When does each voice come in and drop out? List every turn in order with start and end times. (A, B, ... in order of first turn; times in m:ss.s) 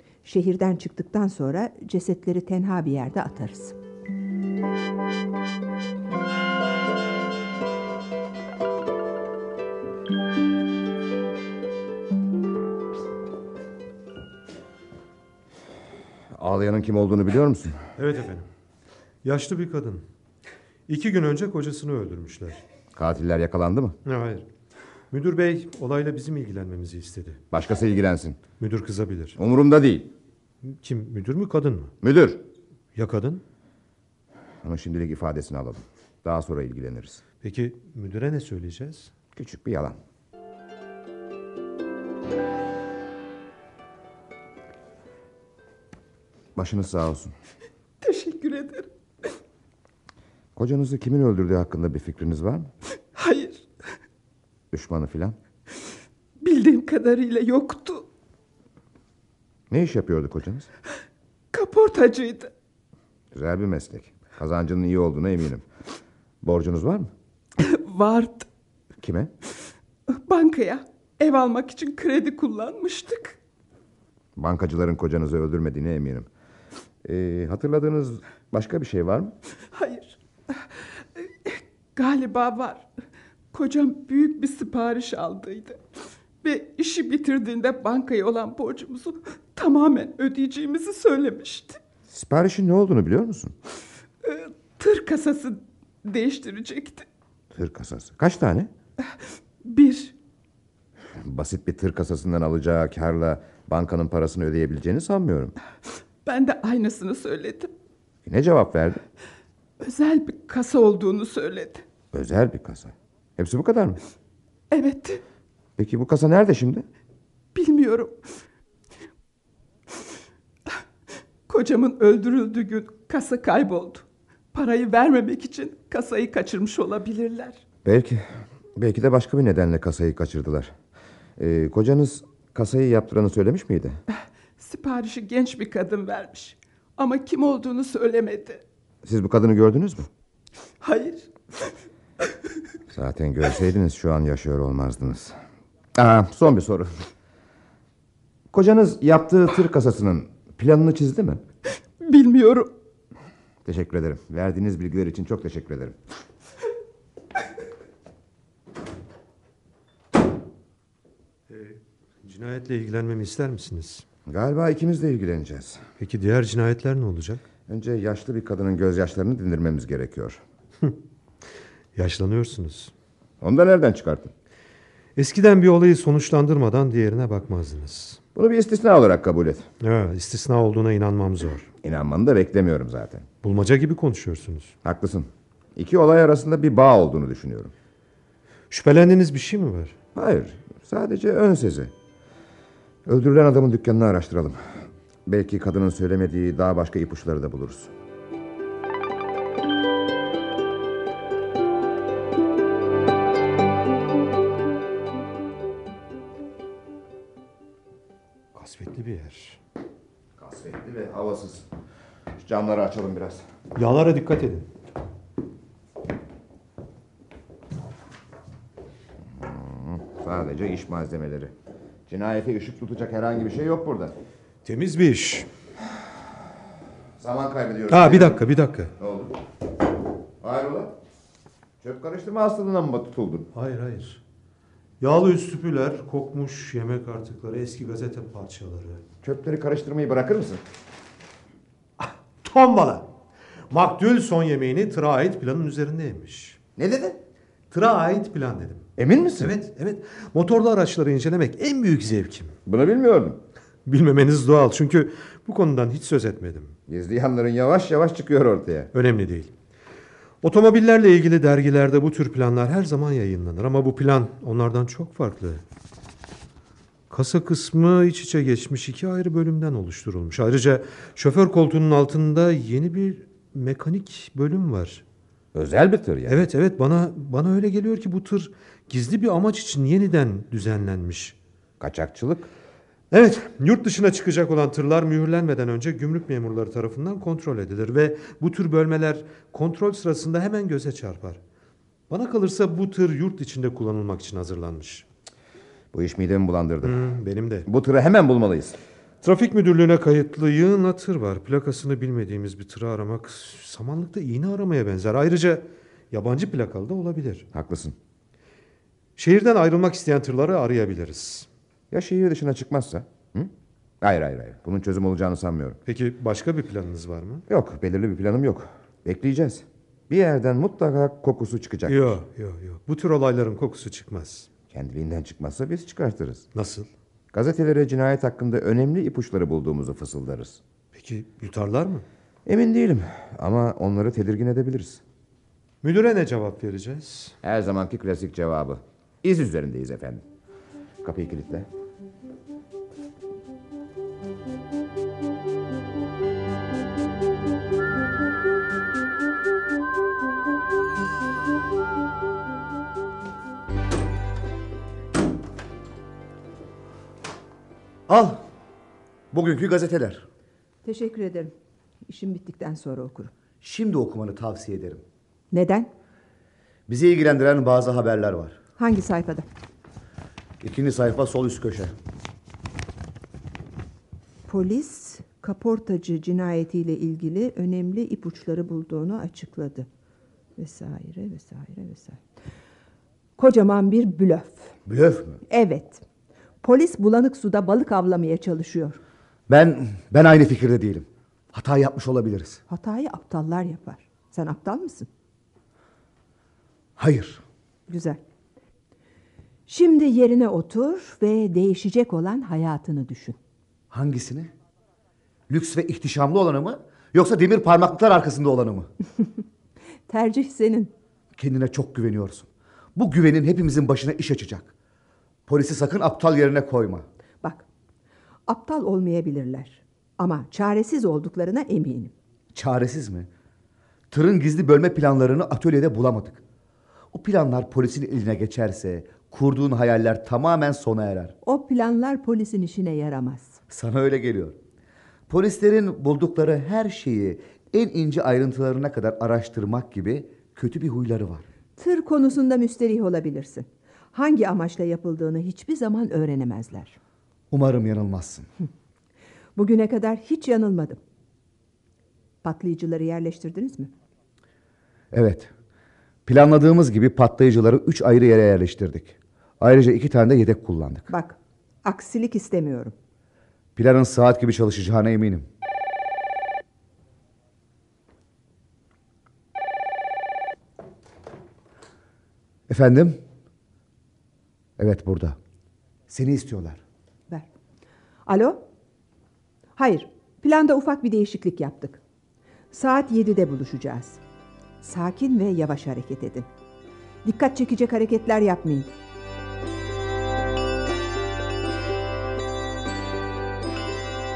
0:00.2-0:03.8 A
0:16.3-0:17.8 B
0:18.0-0:18.5 C
0:19.2-0:20.0 C
0:20.9-0:22.6 C
0:23.0-0:24.0 B
0:24.0-0:24.5 C
0:25.1-0:27.4 C
0:27.5-0:28.4 B
0:28.6-0:29.4 C
0:29.4-0:30.1 B
0:30.6-0:31.9 C
0:32.0-0:32.4 B
0:33.0-0:33.4 C
0:34.6-0:37.2 B
0:37.4-0:39.1 C
0:39.4-0:40.0 B
0:46.6-0:47.3 B
0:48.0-0:48.9 D
0:50.6-0:52.7 B
0:53.1-0:53.7 D
0:54.7-0:55.4 B
0:56.4-0:58.1 D
0:59.7-1:00.7 B
1:01.5-1:02.5 D
1:03.3-1:05.6 B
1:06.4-1:07.1 B
1:07.6-1:08.5 D
1:09.0-1:09.3 B
1:10.1-1:13.4 D
1:14.4-1:16.3 B
1:17.0-1:19.4 B
1:19.7-1:20.6 D
1:21.2-1:22.9 D
1:23.5-1:25.8 D
1:26.4-1:31.8 D
1:32.1-1:33.6 B
1:34.2-1:37.1 D
1:37.5-1:38.7 B
1:39.6-1:40.2 D
1:41.2-1:45.6 B
1:46.2-1:47.7 D
1:48.3-1:49.0 B
1:49.8-1:51.8 D
1:52.1-1:54.0 B
1:54.7-1:55.2 D
1:55.8-1:56.9 B
1:57.5-1:58.2 D
2:01.5-2:07.6 D
2:07.8-2:10.7 B
2:11.4-2:14.0 B
2:14.1-2:18.6 D
2:19.0-2:20.1 B
2:20.8-2:21.7 D
2:22.9-2:25.4 B
2:26.0-2:26.9 B
2:28.5-2:31.4 B
2:32.0-2:32.7 D
2:33.6-2:36.0 B
2:41.5-2:44.0 C
2:44.3-2:45.8 B
2:46.0-2:47.4 C
2:47.7-2:50.4 B
2:52.0-2:52.9 C
2:53.4-2:54.3 B
2:55.2-2:58.2 C
2:58.4-2:59.7 B
2:59.8-3:01.7 C
3:01.8-3:03.3 B
3:03.4-3:04.8 C
3:04.8-3:07.7 B
3:08.7-3:10.0 C
3:10.2-3:11.9 B
3:13.0-3:14.6 B
3:15.3-3:17.9 B
3:28.5-3:29.6 C
3:30.4-3:31.7 B
3:32.4-3:33.4 B
3:33.8-3:34.7 C
3:39.3-3:41.5 B
3:42.1-3:44.2 B
3:44.6-3:45.5 C
3:47.2-3:48.4 B
3:47.9-3:48.9 C
3:49.0-3:49.4 B
3:50.4-3:51.0 B
3:51.8-3:53.5 B
3:53.5-3:54.2 C
3:55.0-3:59.0 C
3:59.2-4:00.6 B
4:02.0-4:03.1 C
4:03.7-4:06.6 C
4:06.8-4:07.2 B
4:07.7-4:12.6 C
4:09.0-4:09.5 B
4:12.7-4:13.4 B
4:13.9-4:16.8 C
4:16.9-4:18.9 B
4:18.9-4:19.5 C
4:20.4-4:25.6 C
4:27.1-4:35.0 C
4:35.5-4:36.5 B
4:36.3-4:41.4 C
4:41.8-4:42.5 B
4:43.1-4:51.4 C
4:52.1-4:55.1 C
4:55.9-4:57.1 B
4:56.8-4:57.7 C
4:57.7-4:58.8 B
4:59.2-5:07.5 C
5:07.5-5:08.0 B
5:09.2-5:11.5 C
5:11.9-5:15.8 B
5:15.9-5:17.4 C
5:17.5-5:22.2 B
5:21.9-5:24.5 C
5:24.7-5:26.5 B
5:26.6-5:26.9 C
5:27.3-5:30.6 B
5:30.9-5:32.0 C
5:32.5-5:35.0 B
5:35.8-5:37.4 C
5:37.4-5:40.2 B
5:41.0-5:41.7 B
5:58.1-5:58.4 E
5:59.3-6:00.3 E
6:00.8-6:01.5 A
6:02.1-6:03.3 A
6:03.6-6:05.0 E
6:05.5-6:05.9 A
6:06.9-6:08.6 E
6:08.8-6:09.5 A
6:10.6-6:11.9 E
6:14.5-6:19.9 A
6:20.6-6:22.2 A
6:23.4-6:24.8 A
6:24.9-6:25.4 E
6:25.5-6:26.0 A
6:26.6-6:29.0 A
6:29.5-6:32.6 E
6:32.7-6:35.1 A
6:37.0-6:37.4 E
6:37.9-6:38.2 A
6:39.7-6:43.4 A
6:43.9-6:44.5 E
6:45.5-6:48.9 E
6:50.1-6:50.9 A
6:51.4-6:54.7 E
6:55.5-6:57.1 E
6:58.5-7:02.1 A
7:02.5-7:03.3 E
7:04.1-7:06.4 E
7:07.1-7:11.4 E
7:11.4-7:13.6 A
7:13.7-7:14.6 E
7:15.3-7:21.4 E
7:21.8-7:27.0 A
7:27.5-7:28.5 E
7:29.6-7:31.0 A
7:32.4-7:33.9 A
7:35.1-7:35.5 E
7:36.3-7:41.1 E
7:41.1-7:43.0 A
7:43.8-7:45.5 E
7:52.7-7:53.2 E
7:54.8-7:55.4 E
7:56.1-7:56.8 E
7:58.3-7:58.6 A
7:59.8-8:02.0 A
8:02.7-8:04.2 A
8:04.8-8:06.5 A
8:07.2-8:08.9 A